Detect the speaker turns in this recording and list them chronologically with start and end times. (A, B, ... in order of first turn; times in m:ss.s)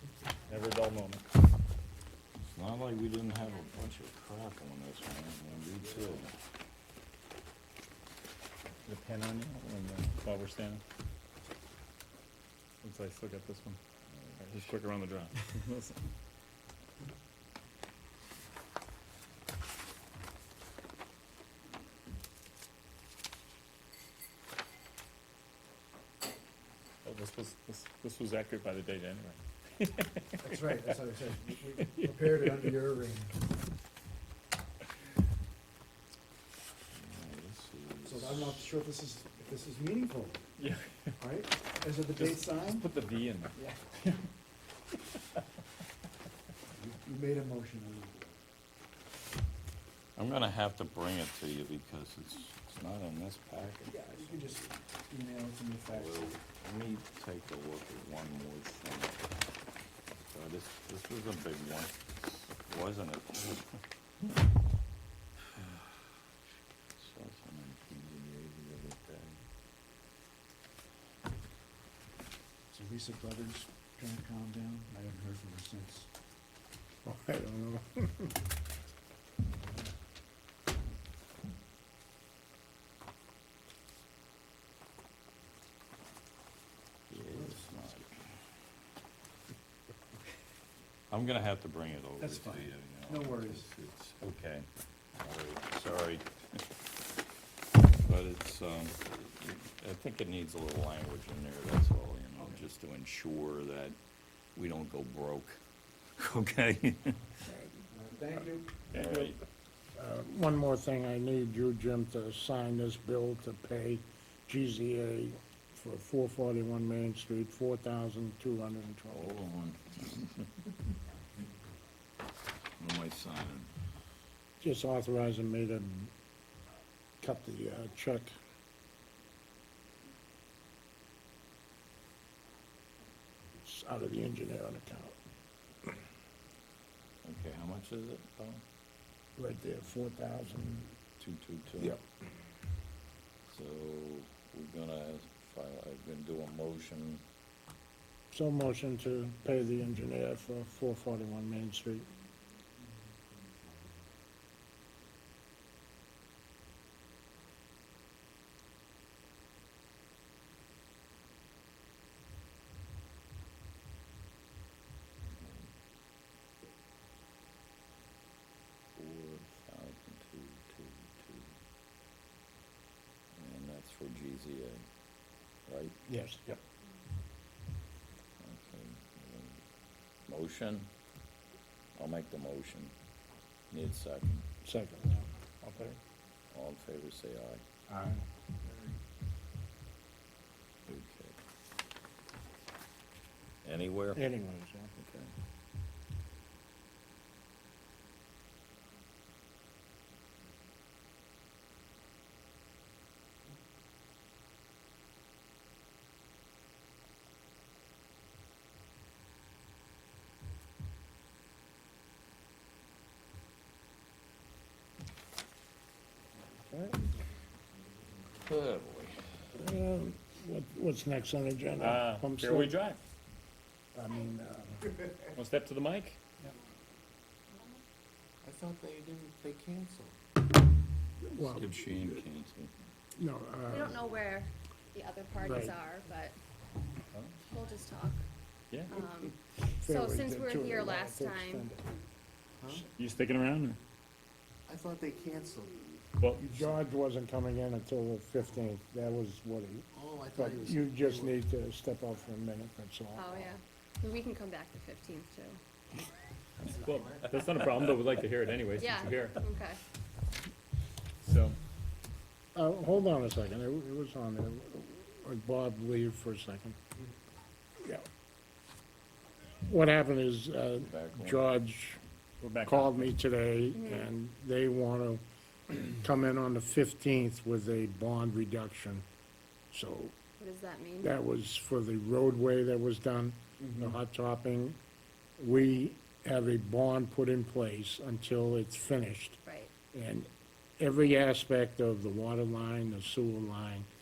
0:00.5-0:01.2 A
0:02.4-0:06.3 B
0:08.9-0:10.8 A
0:12.8-0:13.8 A
0:14.1-0:14.6 B
0:14.4-0:16.0 A
0:27.0-0:30.2 A
0:30.4-0:33.2 C
0:31.8-0:32.1 A
0:36.9-0:38.7 B
0:38.0-0:40.4 C
0:40.6-0:41.2 A
0:41.2-0:42.9 C
0:42.2-0:43.6 A
0:46.8-0:48.4 C
0:50.2-0:54.5 B
0:53.9-0:56.2 C
0:55.9-0:59.2 B
1:00.2-1:03.7 B
1:07.0-1:09.4 B
1:12.7-1:16.0 C
1:17.0-1:18.3 D
1:27.1-1:28.2 B
1:31.1-1:34.7 B
1:32.2-1:32.5 C
1:33.1-1:33.6 C
1:35.2-1:36.3 B
1:38.0-1:44.0 B
1:44.6-1:45.6 B
1:46.2-1:47.4 B
1:47.5-1:47.8 E
1:47.9-1:48.8 C
1:48.9-1:49.4 B
1:50.0-1:59.4 D
1:59.1-2:00.5 B
2:02.8-2:03.7 B
2:04.6-2:06.1 D
2:07.2-2:08.3 D
2:13.6-2:15.2 D
2:17.2-2:18.6 B
2:19.4-2:20.9 D
2:21.2-2:22.0 B
2:23.5-2:27.2 B
2:28.3-2:32.1 D
2:45.4-2:45.7 B
2:49.0-2:51.5 B
2:53.4-2:54.9 B
2:55.7-2:56.0 B
2:56.1-2:56.4 D
2:58.4-2:59.6 B
3:00.3-3:00.9 B
3:02.0-3:02.9 B
3:03.7-3:04.5 B
3:04.6-3:05.3 D
3:05.6-3:06.0 A
3:06.5-3:07.6 B
3:07.9-3:08.2 D
3:10.9-3:11.4 B
3:13.6-3:14.2 B
3:14.2-3:14.9 D
3:15.0-3:15.3 B
3:36.7-3:37.0 D
3:38.4-3:39.2 B
3:39.5-3:42.7 D
3:41.8-3:43.0 A
3:44.0-3:45.0 D
3:45.4-3:46.2 A
3:48.4-3:50.2 F
3:51.2-3:52.2 D
3:51.4-3:52.7 B
3:53.2-3:54.0 D
3:53.7-3:56.4 E
3:55.4-3:55.8 D
3:57.5-3:58.2 E
3:58.9-4:01.7 E
3:59.8-4:01.8 D
4:03.0-4:03.8 A
4:04.7-4:05.8 F
4:06.2-4:06.5 A
4:06.5-4:13.5 D
4:09.9-4:11.4 F
4:13.1-4:15.6 E
4:16.8-4:19.4 A
4:18.8-4:19.8 E
4:21.2-4:21.6 A
4:22.6-4:26.8 D
4:29.6-4:32.0 D
4:30.8-4:31.5 B
4:32.4-4:33.1 A
4:32.6-4:39.0 D
4:33.7-4:34.1 E
4:39.7-4:40.2 D
4:40.4-4:41.1 E
4:41.0-4:44.8 D
4:43.6-4:43.9 C
4:45.4-4:49.4 D
4:49.4-4:49.7 E
4:49.9-4:50.3 D
4:50.8-4:53.9 D